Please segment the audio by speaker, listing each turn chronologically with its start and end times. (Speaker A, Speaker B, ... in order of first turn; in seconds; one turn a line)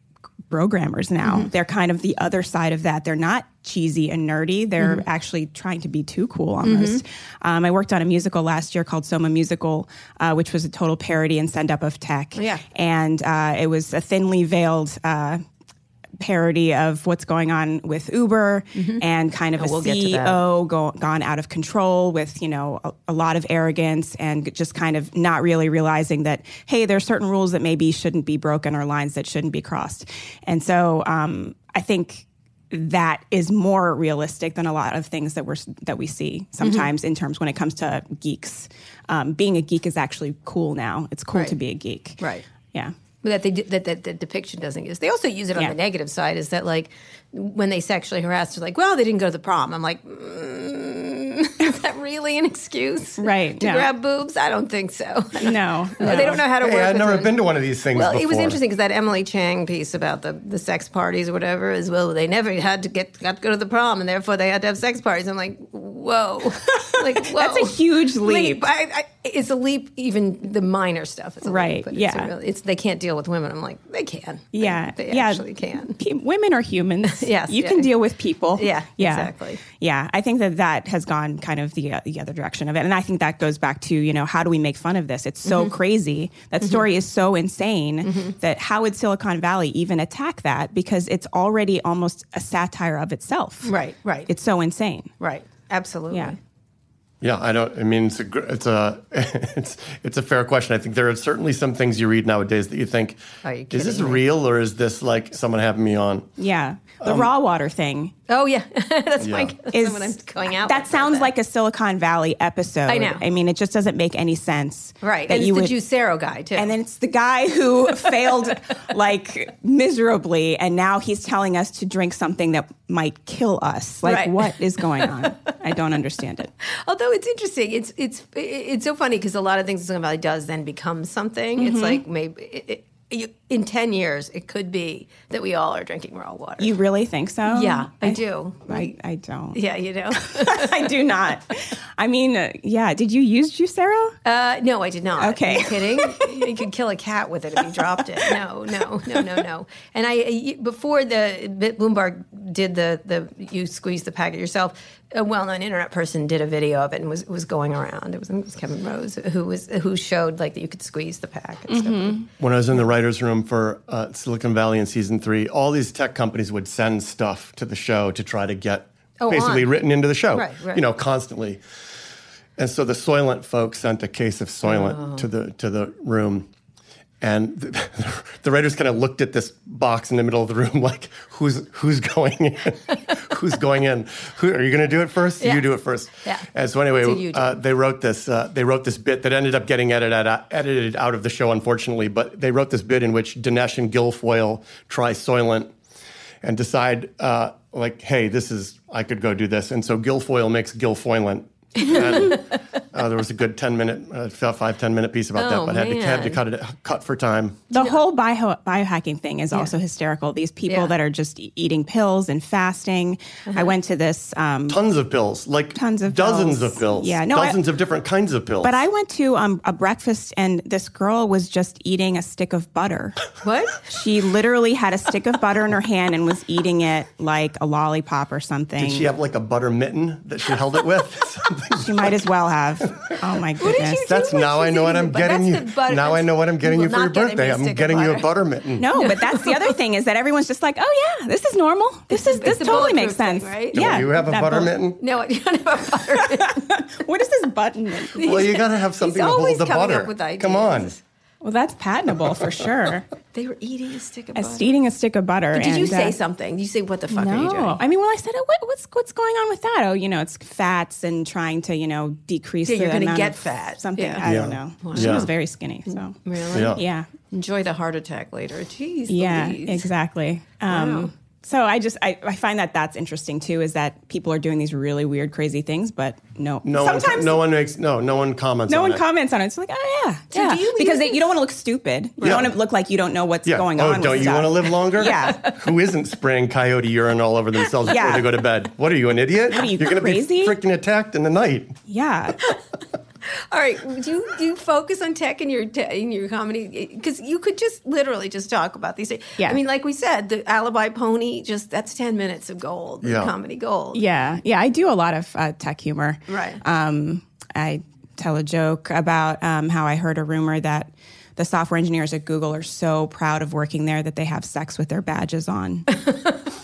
Speaker A: 0.5-15.4
Speaker B: 1.2-1.5
Speaker B: 6.6-7.0
Speaker B: 12.4-12.6
Speaker A: 16.2-42.2
Speaker B: 18.8-19.0
Speaker B: 19.6-20.4
Speaker B: 36.6-36.9
Speaker B: 42.2-42.5
Speaker B: 43.2-57.4
Speaker A: 53.2-53.9
Speaker A: 55.4-56.4
Speaker C: 56.0-58.6
Speaker B: 57.9-76.0
Speaker A: 66.9-68.7
Speaker A: 71.4-72.3
Speaker A: 74.5-93.7
Speaker B: 77.0-77.9
Speaker B: 78.6-79.6
Speaker B: 85.5-85.7
Speaker B: 88.0-88.3
Speaker B: 93.7-94.3
Speaker A: 94.3-95.1
Speaker B: 95.2-96.4
Speaker C: 97.2-106.3
Speaker B: 103.4-104.2
Speaker A: 106.4-108.1
Speaker C: 107.0-107.3
Speaker B: 108.3-111.3
Speaker C: 109.2-109.5
Speaker A: 109.7-115.7
Speaker B: 112.9-113.2
Speaker B: 115.0-116.7
Speaker A: 116.6-126.5
Speaker B: 124.0-125.1
Speaker B: 126.6-136.7
Speaker A: 131.6-132.0
Speaker A: 136.6-139.6
Speaker B: 137.5-138.9
Speaker B: 139.5-140.9
Speaker A: 140.1-144.2
Speaker B: 144.2-162.3
Speaker A: 145.2-146.6
Speaker A: 147.6-148.4
Speaker A: 149.1-149.4
Speaker A: 161.7-162.3
Speaker C: 162.4-171.6
Speaker B: 169.2-169.7
Speaker B: 170.3-170.8
Speaker C: 172.6-176.5
Speaker B: 174.7-175.3
Speaker C: 177.2-195.7
Speaker B: 185.4-185.7
Speaker B: 186.2-186.5
Speaker B: 187.0-187.5
Speaker C: 196.4-207.7
Speaker B: 201.8-202.3
Speaker B: 205.4-206.4
Speaker A: 207.7-214.8
Speaker B: 207.7-208.0
Speaker B: 210.7-210.9
Speaker C: 214.7-218.8
Speaker A: 215.8-217.6
Speaker A: 218.6-223.2
Speaker B: 223.4-223.9
Speaker A: 223.9-229.1
Speaker C: 228.8-232.1
Speaker A: 231.7-234.1
Speaker B: 233.6-238.3
Speaker C: 234.0-238.9
Speaker A: 238.8-244.7
Speaker B: 238.9-239.7
Speaker B: 242.1-244.1
Speaker C: 243.7-245.0
Speaker B: 245.0-246.7
Speaker A: 246.1-248.5
Speaker B: 248.2-251.0
Speaker C: 248.2-250.9
Speaker A: 251.4-253.1
Speaker B: 253.3-254.7
Speaker A: 254.3-256.1
Speaker B: 255.5-257.8
Speaker A: 257.1-266.2
Speaker B: 262.7-264.3
Speaker C: 264.2-265.3
Speaker B: 264.8-265.3
Speaker B: 265.9-269.9
Speaker C: 266.5-266.8
Speaker A: 266.7-267.1
Speaker A: 269.1-277.4
Speaker B: 270.7-271.1
Speaker C: 276.6-279.0
Speaker A: 278.7-285.5
Speaker B: 280.3-281.3
Speaker C: 282.2-282.5
Speaker C: 283.5-291.8
Speaker B: 285.1-285.6
Speaker A: 287.9-288.4
Speaker A: 289.5-290.6
Speaker A: 291.9-292.4
Speaker B: 293.3-304.0
Speaker C: 303.0-303.3
Speaker A: 303.9-316.0
Speaker B: 306.3-306.6